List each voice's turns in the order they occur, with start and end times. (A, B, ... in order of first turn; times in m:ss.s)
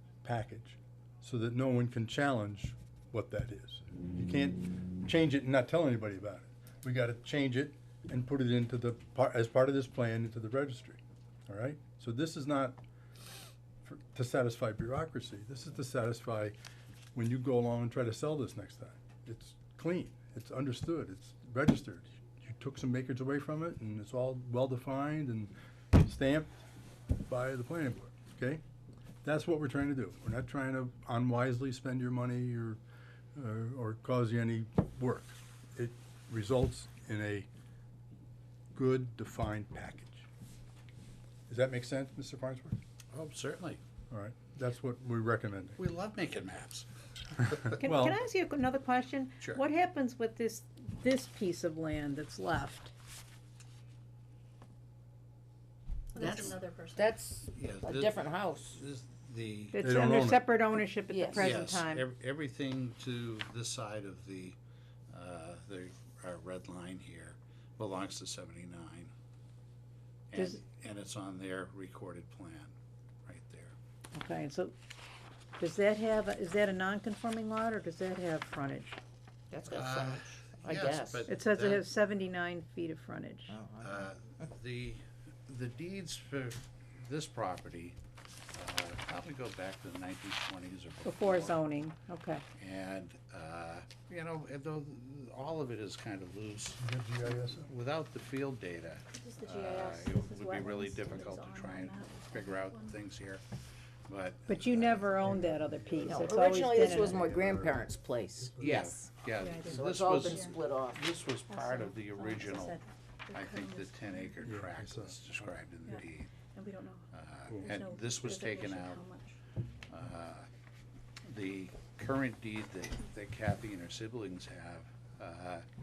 0:00.2-0:12.8 A
0:13.8-0:16.6 A
0:17.1-0:26.6 A
0:27.2-0:28.6 A
0:29.2-0:32.8 A
0:33.3-0:37.5 A
0:38.7-0:40.3 A
0:41.5-0:42.8 A
0:43.1-0:43.8 B
0:44.1-0:45.8 A
0:45.8-0:46.9 B
0:47.4-0:47.8 B
0:47.8-0:48.2 A
0:47.8-0:52.9 C
0:56.1-0:57.1 D
0:56.2-0:58.8 E
0:57.5-0:59.8 B
0:59.7-1:02.1 C
0:59.8-1:00.4 A
1:01.1-1:01.6 E
1:01.4-1:04.6 B
1:05.1-1:09.1 B
1:10.3-1:13.7 B
1:10.3-1:10.6 C
1:14.1-1:14.7 C
1:15.6-1:19.0 C
1:19.5-1:21.3 E
1:19.7-1:21.8 B
1:21.3-1:23.6 C
1:23.5-1:24.1 E
1:23.8-1:28.0 B
1:28.5-1:31.6 B
1:31.0-1:32.4 C
1:32.6-1:43.4 B
1:36.8-1:37.7 A
1:39.1-1:43.0 D
1:44.1-1:45.5 B
1:44.5-1:47.2 C
1:45.2-1:47.9 A
1:46.0-1:49.0 E
1:48.4-1:48.8 A
1:48.6-1:52.8 B
1:49.2-1:50.5 D
1:49.6-1:51.0 E
1:51.5-1:54.5 D
1:53.3-1:56.3 B
1:54.4-1:55.5 A
1:55.8-1:59.4 D
1:57.1-1:59.1 B
1:59.9-2:00.5 B
2:01.3-2:05.7 B